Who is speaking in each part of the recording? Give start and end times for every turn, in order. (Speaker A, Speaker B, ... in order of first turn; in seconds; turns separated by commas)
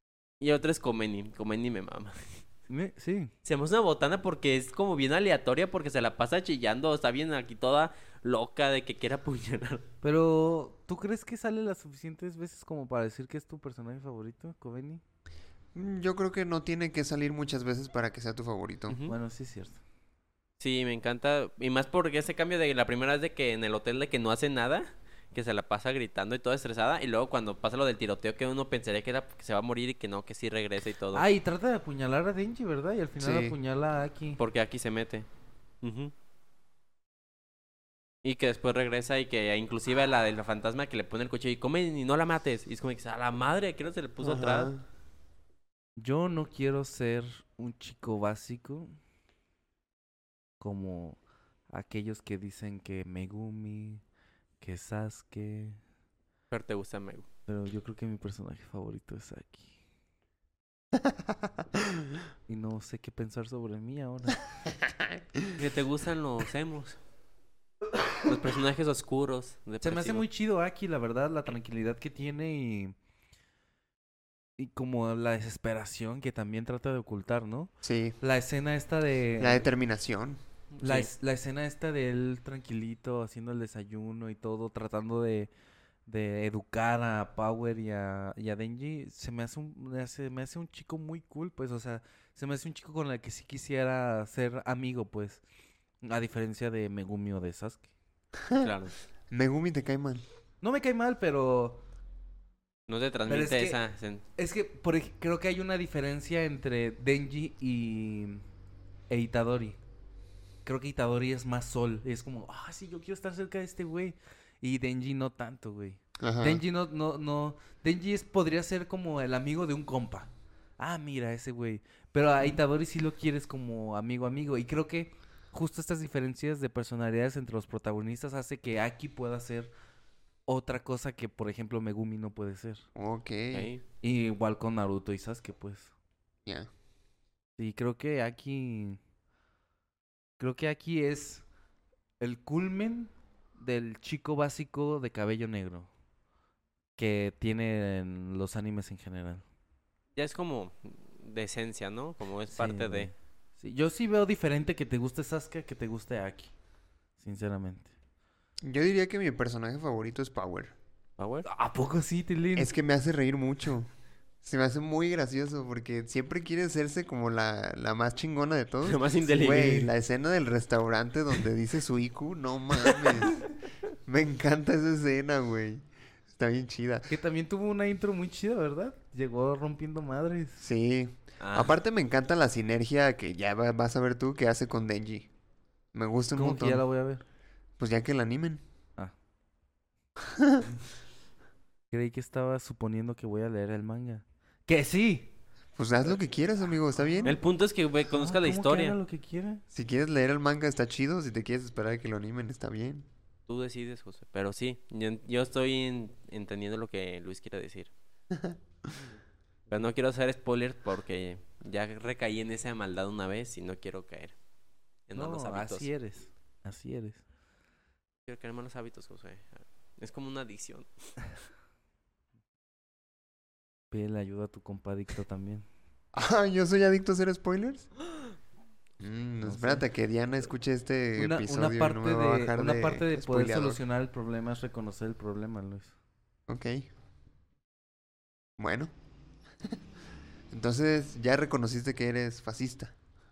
Speaker A: 0.4-2.4, Speaker B: 2.7-3.3, Speaker A: 3.4-9.8, Speaker B: 10.0-15.0, Speaker C: 15.7-19.0, Speaker A: 18.9-19.1, Speaker B: 19.1-19.8, Speaker A: 20.6-31.2, Speaker B: 31.1-34.4, Speaker C: 33.2-33.5, Speaker A: 34.4-35.3, Speaker A: 35.8-36.1, Speaker A: 38.2-44.7, Speaker C: 44.2-44.8, Speaker B: 46.0-48.9, Speaker B: 50.6-54.0, Speaker B: 54.6-55.8, Speaker A: 56.5-57.3, Speaker B: 57.5-59.7, Speaker C: 61.0-61.5, Speaker B: 62.5-64.4, Speaker C: 64.8-65.5, Speaker A: 65.5-67.0, Speaker A: 68.2-70.2, Speaker B: 69.8-72.9, Speaker B: 74.6-79.7, Speaker C: 77.8-78.2, Speaker C: 79.4-80.4, Speaker A: 80.7-81.1, Speaker B: 80.8-85.5, Speaker B: 86.1-95.4, Speaker B: 96.0-97.9, Speaker A: 98.6-98.9, Speaker C: 99.3-100.2, Speaker B: 100.6-101.8, Speaker A: 102.9-104.2, Speaker B: 103.3-103.8, Speaker B: 104.4-108.4, Speaker B: 109.1-109.8, Speaker B: 110.6-129.7, Speaker C: 116.2-116.6, Speaker B: 130.5-132.8, Speaker C: 132.9-133.7, Speaker A: 133.5-133.8, Speaker B: 134.0-135.9, Speaker B: 137.6-139.0, Speaker B: 140.4-141.4, Speaker B: 142.2-145.9, Speaker B: 147.0-149.4, Speaker A: 150.2-153.1, Speaker B: 152.5-156.5, Speaker B: 157.2-157.9, Speaker C: 158.6-160.7, Speaker A: 161.2-161.5, Speaker B: 161.4-162.7, Speaker C: 162.5-163.9, Speaker C: 164.4-173.4, Speaker A: 168.8-169.9, Speaker A: 172.8-173.3, Speaker C: 174.1-177.1, Speaker B: 177.1-180.6, Speaker C: 180.6-185.3, Speaker A: 181.4-181.7, Speaker C: 185.9-186.8, Speaker B: 186.3-187.2, Speaker C: 187.8-188.6, Speaker C: 190.2-190.6, Speaker B: 191.9-195.3, Speaker C: 195.8-197.4, Speaker B: 197.0-197.4, Speaker A: 197.2-199.0, Speaker B: 198.1-199.6, Speaker C: 199.7-203.1, Speaker A: 203.5-207.9, Speaker C: 208.3-208.6, Speaker A: 209.7-214.3, Speaker A: 215.1-215.9, Speaker B: 215.1-217.2, Speaker A: 218.2-220.9, Speaker B: 223.9-225.7, Speaker C: 226.1-227.9, Speaker C: 229.0-233.8, Speaker B: 229.4-229.8, Speaker B: 231.2-235.9, Speaker C: 236.5-236.9, Speaker C: 238.6-238.9, Speaker C: 240.5-242.9